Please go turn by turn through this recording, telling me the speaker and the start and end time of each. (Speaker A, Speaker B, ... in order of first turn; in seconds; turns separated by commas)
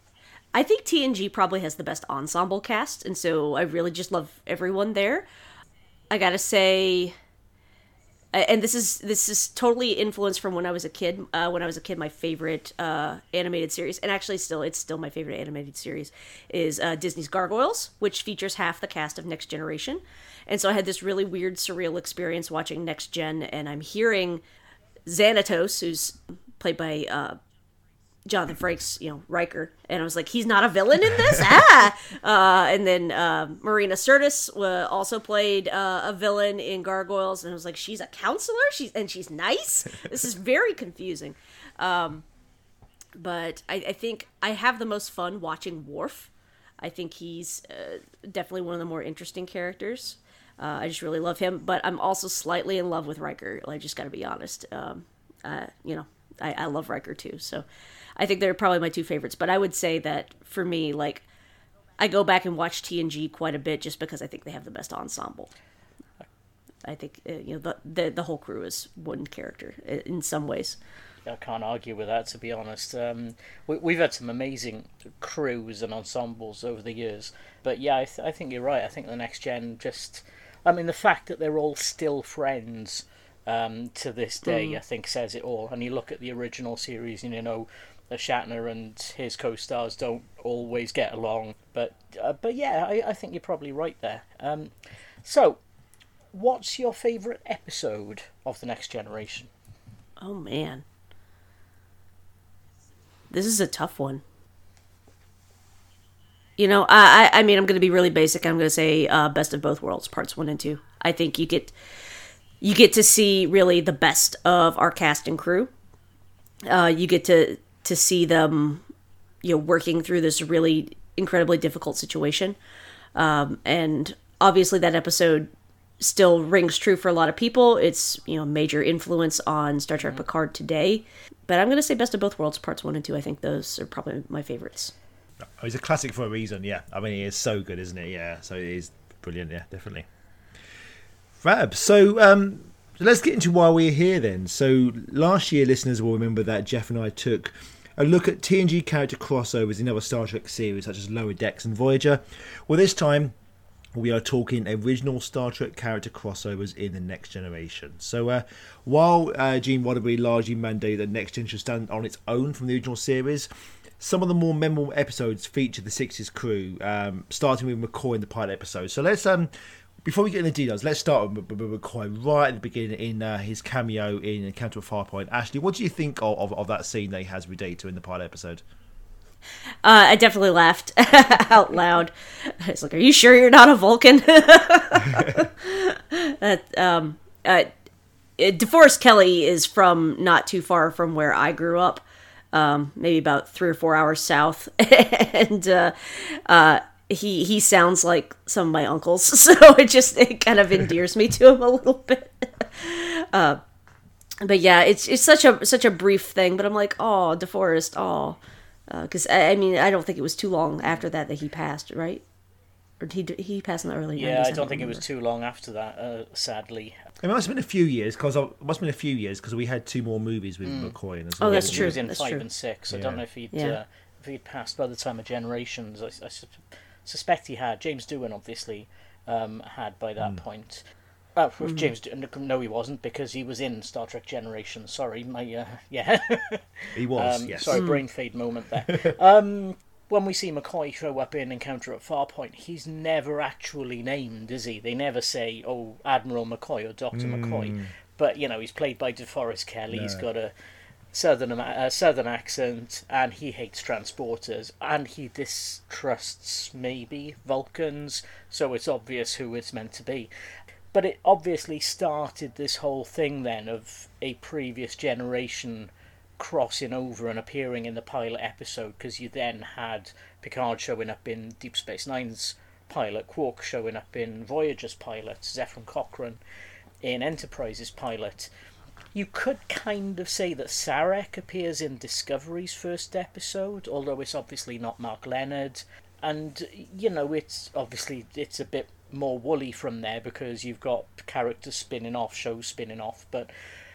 Speaker A: 0.5-5.3, Speaker A: 6.1-7.2, Speaker A: 8.3-24.4, Speaker A: 25.1-27.4, Speaker A: 28.3-42.2, Speaker A: 43.2-57.6, Speaker A: 58.2-61.2, Speaker A: 62.0-65.5, Speaker A: 66.8-70.8, Speaker B: 71.3-94.7, Speaker A: 84.5-84.8, Speaker B: 95.2-95.6, Speaker B: 96.3-99.5, Speaker A: 100.2-100.8, Speaker A: 103.3-104.2, Speaker A: 106.6-111.7, Speaker A: 112.6-115.7, Speaker A: 116.7-118.8, Speaker A: 119.4-122.6, Speaker A: 123.2-134.9, Speaker C: 135.4-140.1, Speaker C: 141.4-153.3, Speaker C: 153.9-163.5, Speaker C: 164.0-169.5, Speaker C: 170.0-178.6, Speaker A: 179.8-187.7, Speaker A: 188.4-203.6, Speaker A: 204.4-212.2, Speaker A: 213.0-215.0, Speaker B: 214.2-217.0, Speaker C: 217.2-221.9, Speaker B: 220.6-221.0, Speaker A: 221.4-222.4, Speaker B: 221.5-230.8, Speaker C: 222.9-223.2, Speaker A: 223.5-223.8, Speaker B: 231.4-250.5, Speaker A: 231.6-231.9, Speaker C: 236.9-237.8, Speaker A: 237.7-238.0, Speaker C: 238.9-239.1, Speaker C: 247.1-247.9, Speaker C: 249.9-250.3, Speaker B: 251.1-260.3, Speaker B: 260.9-276.4, Speaker B: 277.0-278.5, Speaker B: 279.1-293.5